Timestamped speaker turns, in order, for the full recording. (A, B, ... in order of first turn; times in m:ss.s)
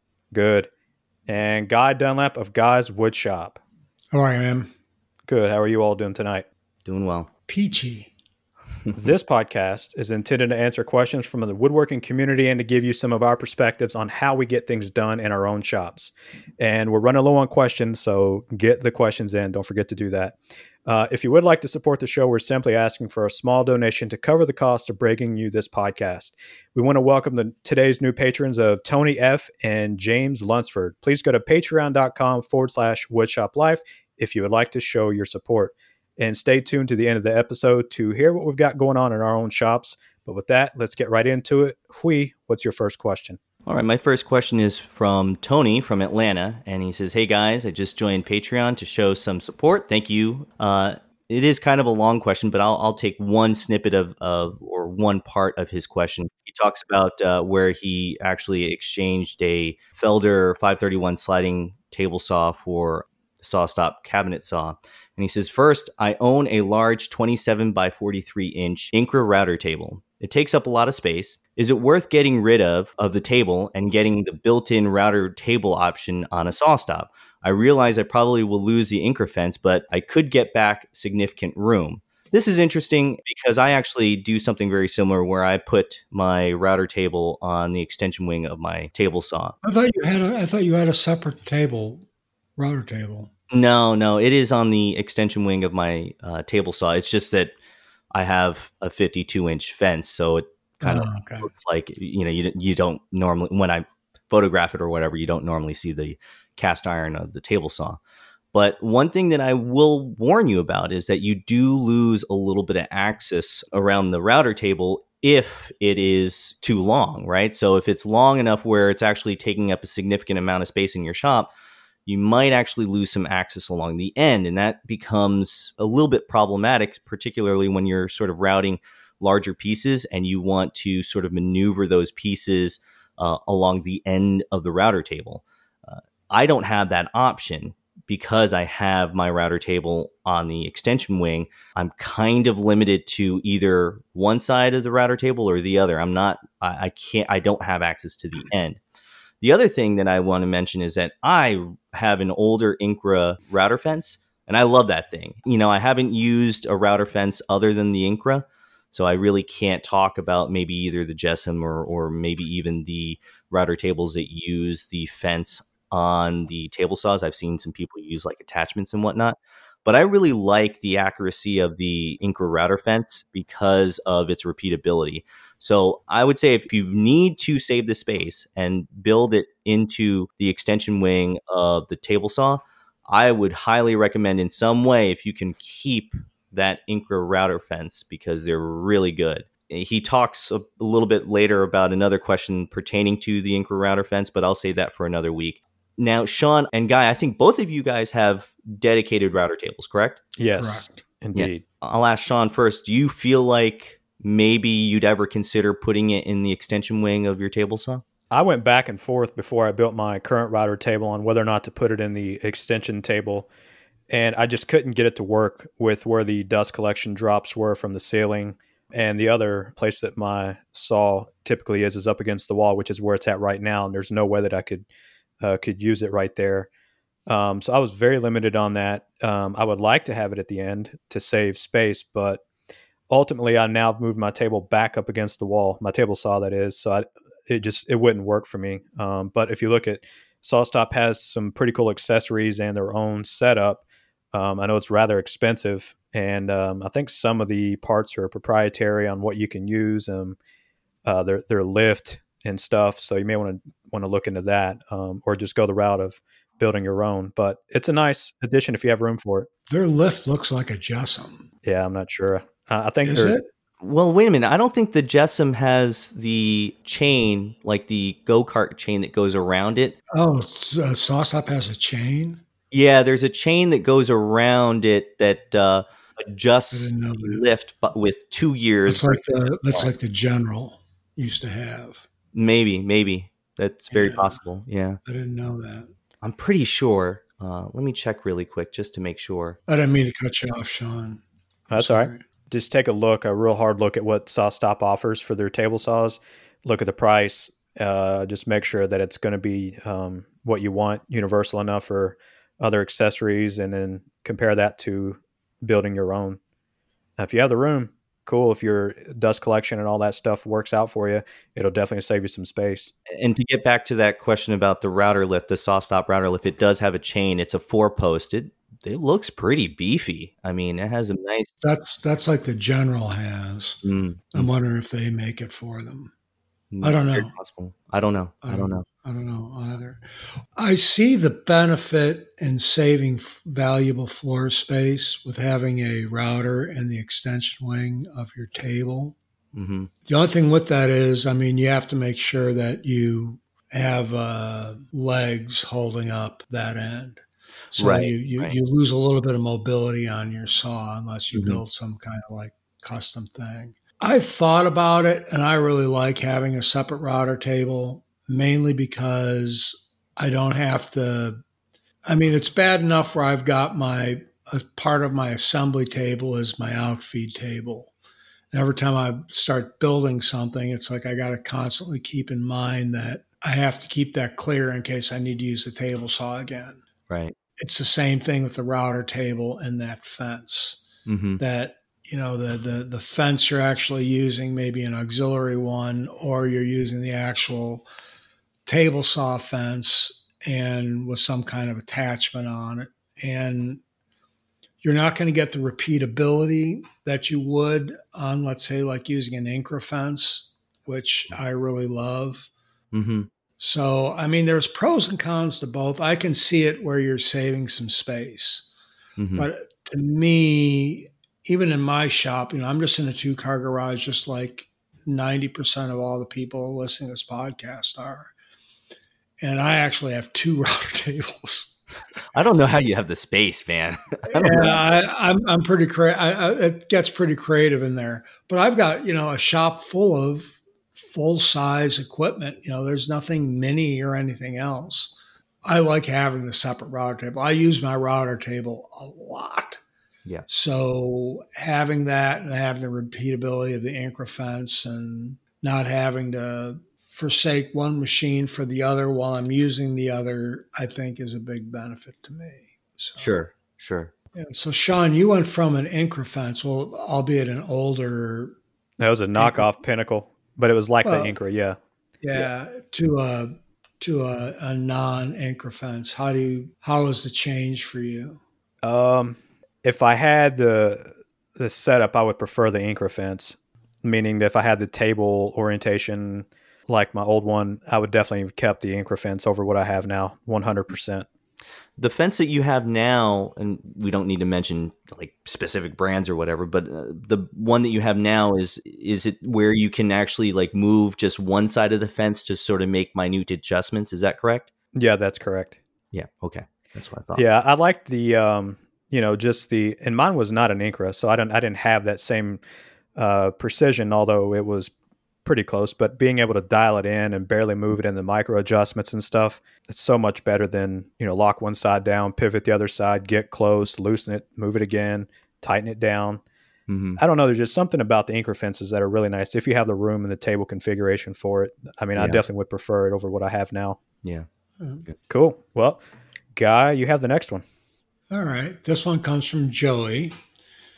0:00.3-0:00.7 A
0:01.3-0:03.6 A
0:04.1-0:04.7 B
0:05.3-0:06.4 A
0:06.8-0:07.3 C
0:07.5-0:08.1 B
0:08.9-0:43.4 A
0:43.7-1:29.6 C
1:29.6-1:32.1 B
1:32.6-1:33.3 B
1:33.5-1:37.5 C
1:38.1-1:48.0 C
1:40.8-1:41.5 B
1:48.5-2:01.5 C
2:02.1-2:28.8 C
2:29.4-3:20.2 C
3:20.4-3:21.6 A
3:20.6-3:21.0 B
3:21.4-3:28.0 C
3:28.3-3:33.5 A
3:34.1-3:44.8 A
3:45.4-3:46.7 A
3:47.3-3:52.4 A
3:53.1-4:10.4 A
4:11.0-4:19.5 A
4:19.7-4:21.5 B
4:21.6-4:23.4 A
4:23.1-4:23.4 B
4:23.8-4:30.0 C
4:30.1-4:32.4 B
4:32.7-4:39.9 C
4:36.7-4:37.4 B
4:38.9-4:42.0 B
4:42.3-4:45.0 C
4:43.9-4:44.4 B
4:45.1-4:45.9 B
4:46.2-4:49.6 C
4:49.7-4:51.2 B
4:51.7-5:06.4 A
4:51.8-4:52.2 B
5:07.2-5:12.9 A
5:13.1-5:21.5 C
5:21.6-5:23.8 B
5:23.8-5:24.5 C
5:24.3-5:26.1 B
5:26.7-5:28.8 C
5:26.8-5:27.3 B
5:28.4-5:30.0 B
5:30.6-5:39.2 B
5:39.5-5:39.9 C
5:40.1-5:47.2 B
5:47.8-5:48.6 C
5:47.8-6:01.4 B
5:51.3-5:51.6 C
6:02.1-6:07.9 B
6:08.5-6:16.8 B
6:17.1-6:17.4 C
6:17.6-6:20.8 B
6:21.1-6:21.4 C
6:21.4-6:27.9 B
6:28.7-6:33.8 B
6:34.8-6:42.5 B
6:42.9-6:43.3 C
6:43.6-6:48.7 B
6:49.2-6:49.5 C
6:49.4-6:58.3 B
6:59.4-7:01.8 B
7:02.3-7:04.8 C
7:04.3-7:19.8 B
7:20.5-7:33.5 B
7:33.2-7:34.1 C
7:34.4-7:38.6 B
7:39.0-7:41.8 A
7:39.4-7:39.6 B
7:41.0-7:41.4 B
7:42.2-7:48.4 B
7:48.8-8:01.3 A
8:02.0-8:14.7 C
8:15.0-8:15.8 A
8:16.1-8:17.4 C
8:17.4-8:22.6 A
8:23.2-8:24.9 A
8:25.4-8:36.4 A
8:36.9-8:37.2 C
8:37.2-8:44.0 A
8:42.2-8:42.4 C
8:45.3-8:46.0 A
8:46.6-8:47.6 A
8:48.3-8:50.3 B